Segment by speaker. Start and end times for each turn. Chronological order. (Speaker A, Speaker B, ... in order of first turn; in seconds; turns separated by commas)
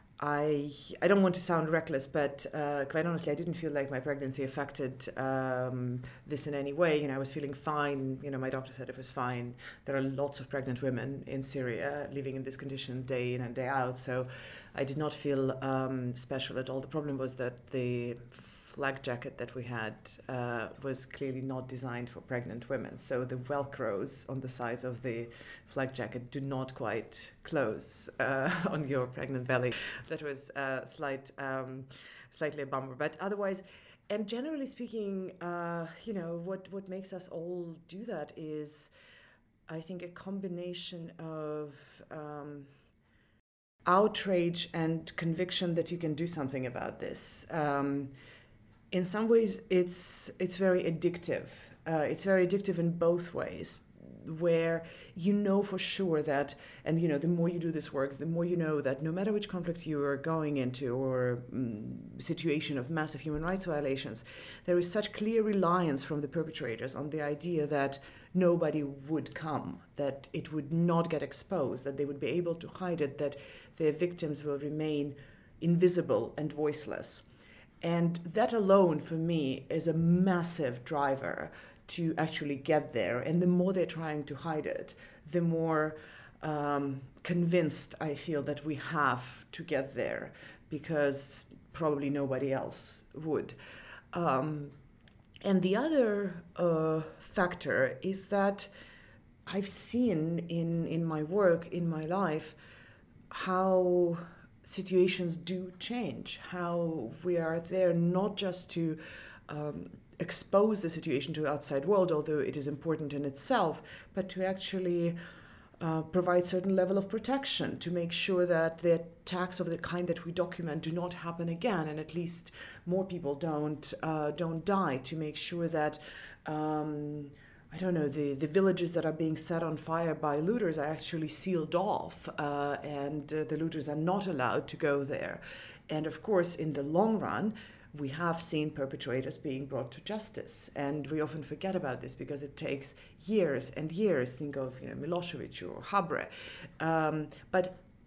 Speaker A: 0.2-38.9, Speaker A: 39.7-42.7, Speaker A: 43.9-48.1, Speaker A: 48.9-77.2, Speaker A: 77.8-93.6, Speaker A: 94.1-94.8, Speaker A: 95.4-98.7, Speaker A: 99.5-102.6, Speaker A: 103.3-115.2, Speaker A: 115.8-147.8